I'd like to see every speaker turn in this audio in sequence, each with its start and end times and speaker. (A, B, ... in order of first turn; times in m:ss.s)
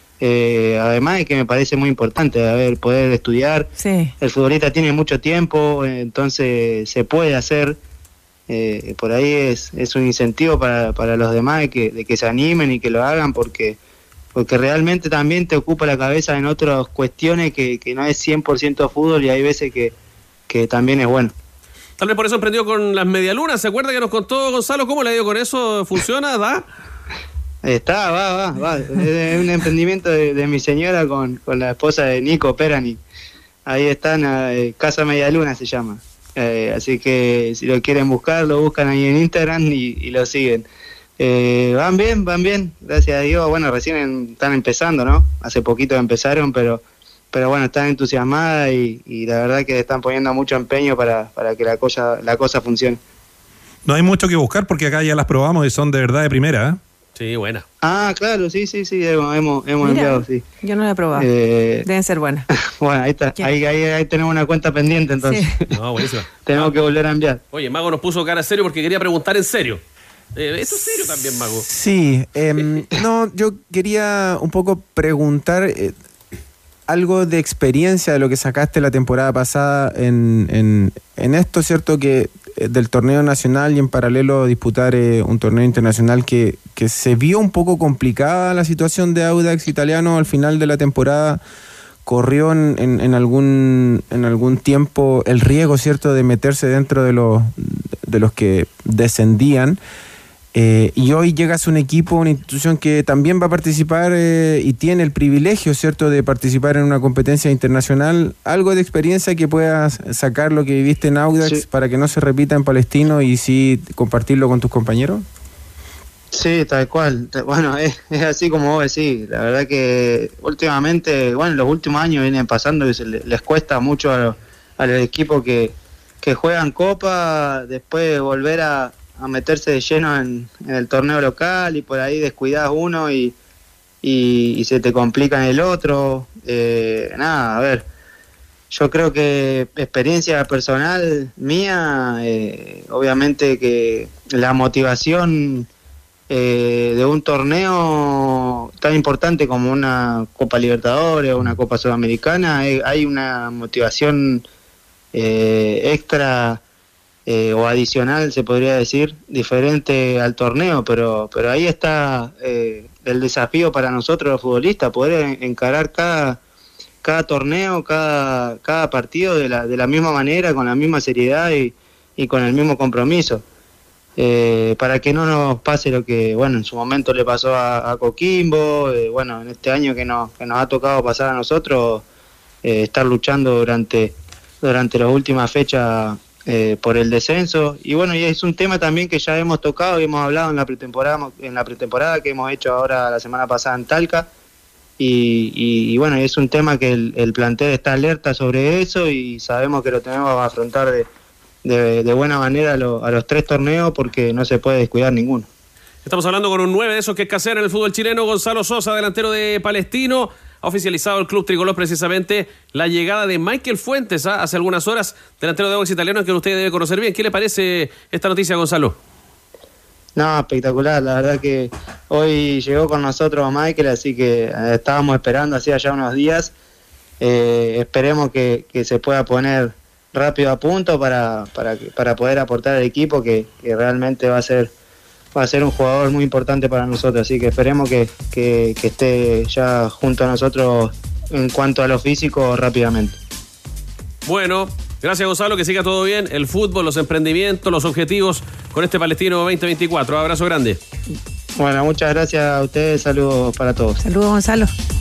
0:00.2-0:03.7 A
0:03.8-0:04.1 B
0:04.2-0:07.8 A
0:08.5-0:13.8 A
0:14.3-0:19.9 A
0:20.5-0:21.3 A
0:22.0-0:26.6 C
0:27.6-0:33.0 A
0:33.7-0:40.7 A
0:41.2-0:46.8 A
0:47.3-0:53.0 A
0:53.8-0:56.8 D
0:57.2-0:57.6 C
0:57.8-1:00.4 A
0:59.8-1:01.3 B
1:01.2-1:01.9 A
1:01.8-1:02.5 B
1:02.8-1:05.6 A
1:05.2-1:05.5 B
1:05.7-1:06.7 C
1:06.4-1:07.4 A
1:07.5-1:09.8 C
1:10.3-1:11.6 C
1:11.6-1:15.9 E
1:16.9-1:31.4 E
1:32.0-1:39.8 E
1:40.5-1:55.2 E
1:56.3-2:13.3 A
2:14.0-2:17.8 A
2:18.7-2:25.7 A
2:26.3-2:34.4 A
2:35.1-2:36.6 A
2:37.3-2:46.4 A
2:47.0-2:53.4 A
2:54.2-3:02.0 A
3:02.6-3:14.3 A
3:15.0-3:21.1 A
3:21.6-3:25.5 A
3:26.0-3:38.9 C
3:40.2-3:46.5 A
3:47.2-3:54.7 A
3:55.3-4:03.1 A
4:04.2-4:10.8 C
4:11.6-4:14.0 A
4:14.0-4:14.7 B